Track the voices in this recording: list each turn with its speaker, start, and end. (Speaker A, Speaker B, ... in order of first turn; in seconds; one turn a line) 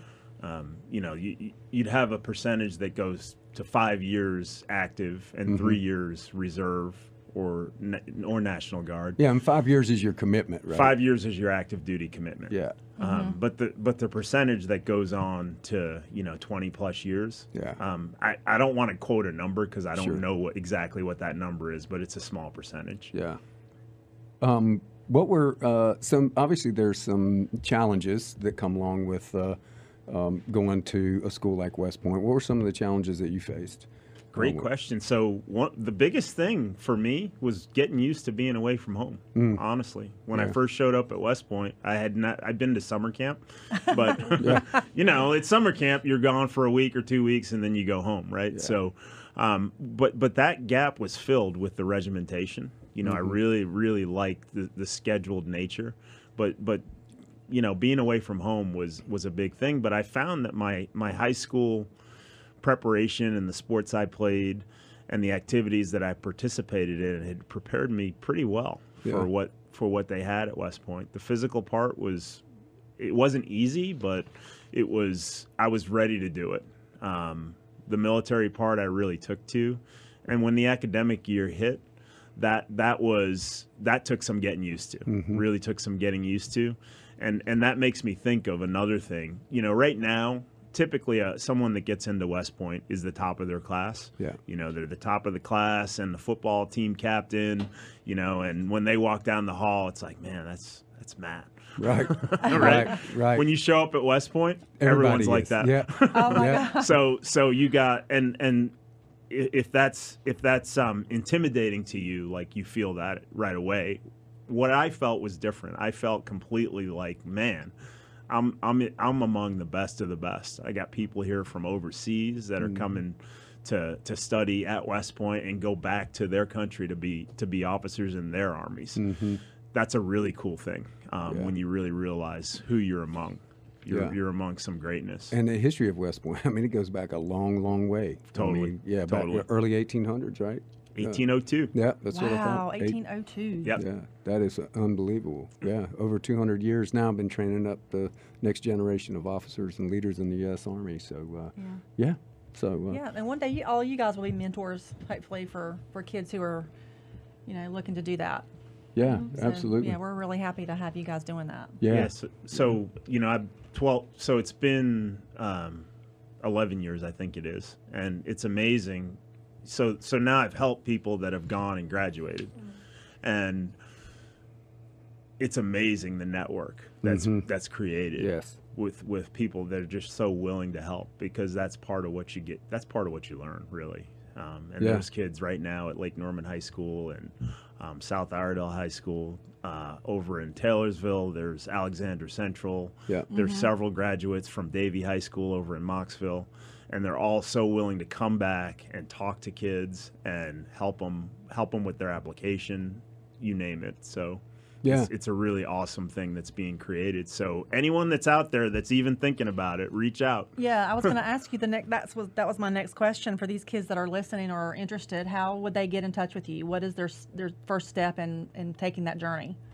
Speaker A: 0.4-9.2
Speaker B: 5.5-5.8
Speaker B: 9.2-10.9
Speaker A: 10.7-23.1
Speaker B: 12.5-12.8
Speaker C: 13.0-13.4
Speaker B: 17.5-17.8
Speaker B: 19.9-20.2
Speaker B: 23.1-23.4
Speaker B: 24.4-34.7
Speaker A: 34.3-56.8
Speaker B: 39.4-39.6
Speaker B: 44.4-44.7
Speaker B: 48.5-48.8
Speaker B: 53.0-53.4
Speaker A: 57.5-61.9
Speaker A: 62.6-72.4
Speaker A: 73.0-81.8
Speaker A: 82.4-108.7
Speaker B: 85.1-85.4
Speaker B: 101.8-103.5
Speaker C: 102.4-102.8
Speaker B: 104.8-106.7
Speaker C: 106.1-106.9
Speaker A: 109.3-117.7
Speaker A: 118.3-129.0
Speaker B: 122.6-122.9
Speaker B: 128.9-129.4
Speaker A: 129.7-135.3
Speaker B: 131.2-131.5
Speaker B: 133.9-134.1
Speaker B: 135.3-141.2
Speaker A: 138.3-139.4
Speaker A: 140.9-141.7
Speaker B: 141.7-143.0
Speaker C: 142.1-143.8
Speaker B: 143.7-153.0
Speaker C: 151.6-151.8
Speaker C: 152.9-156.7
Speaker C: 157.4-158.5
Speaker B: 158.9-160.0
Speaker C: 159.2-161.8
Speaker B: 161.8-162.6
Speaker A: 161.9-165.9
Speaker A: 166.4-172.6
Speaker A: 173.2-173.8
Speaker A: 175.4-210.5
Speaker B: 177.0-177.4
Speaker B: 178.2-178.6
Speaker B: 184.8-185.1
Speaker C: 193.3-193.7
Speaker B: 204.8-205.1
Speaker C: 210.6-219.6